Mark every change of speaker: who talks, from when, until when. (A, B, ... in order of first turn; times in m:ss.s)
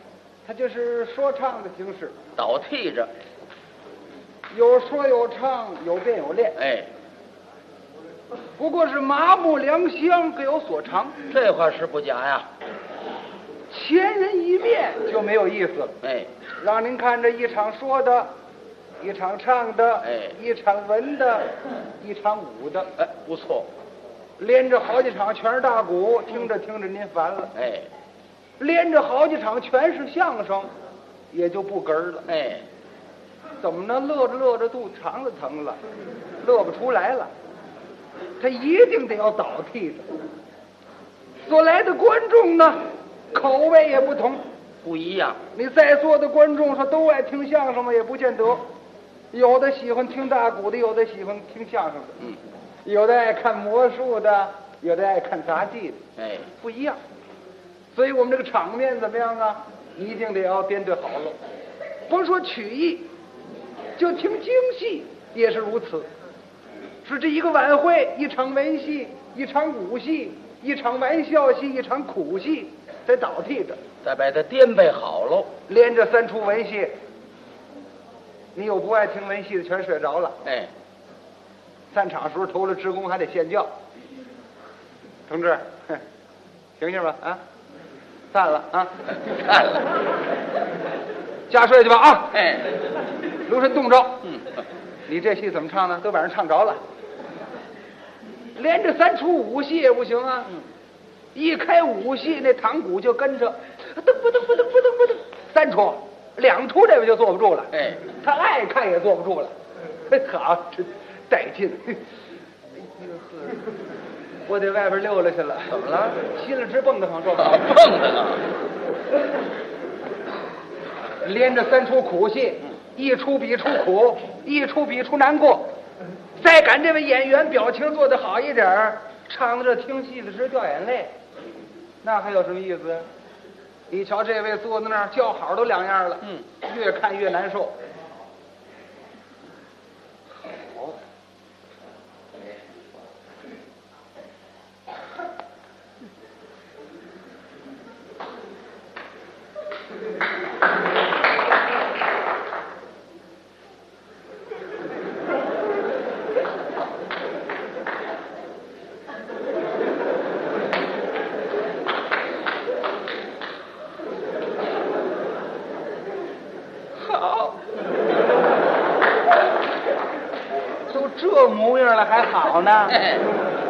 0:00.4-0:02.2 A
0:02.4-0:03.1 B
0:04.5-0:06.6 A
0:06.6-0:06.9 B
0:08.6-0:11.2 A
0:11.3-0:12.5 B
0:13.7-0:16.0 A
0:16.0-0:16.3 B
0:16.6-0:18.3 A
0:19.0-0:22.9 A
0:20.0-0:20.3 B
0:23.0-0:23.7 B
0:24.4-0:27.5 A
0:27.5-0:27.9 B
0:28.6-0:30.7 A
0:31.3-0:32.2 A
0:32.2-0:32.6 B
0:33.6-0:35.8 A
0:36.4-0:37.3 A
0:38.4-0:40.1 A
0:41.5-0:44.4 A
0:44.8-0:45.4 B
0:45.5-0:48.7 A
0:49.3-0:52.3 A
0:52.8-0:56.0 A
0:56.2-0:56.5 B
0:56.6-0:57.0 A
0:57.9-1:01.4 A
1:02.1-1:03.1 A
1:04.0-1:06.1 A
1:07.0-1:13.8 A
1:14.0-1:15.5 B
1:15.7-1:17.0 A
1:18.5-1:20.4 A
1:20.4-1:20.7 B
1:21.9-1:23.7 A
1:25.3-1:26.0 A
1:26.8-1:27.4 A
1:28.3-1:29.1 A
1:29.3-1:29.8 B
1:31.5-1:32.4 A
1:32.3-1:32.7 B
1:33.4-1:34.2 A
1:34.2-1:34.6 B
1:35.1-1:36.8 A
1:38.6-1:40.6 A
1:41.3-1:49.5 A
1:50.1-1:52.0 A
1:52.8-1:53.6 A
1:54.5-1:57.7 A
1:55.7-1:56.2 B
1:57.4-1:58.5 B
2:01.2-2:05.7 A
2:06.4-2:11.1 A
2:12.0-2:13.1 A
2:13.9-2:17.8 A
2:20.5-2:21.0 A
2:47.0-2:47.6 A
2:50.9-2:53.1 A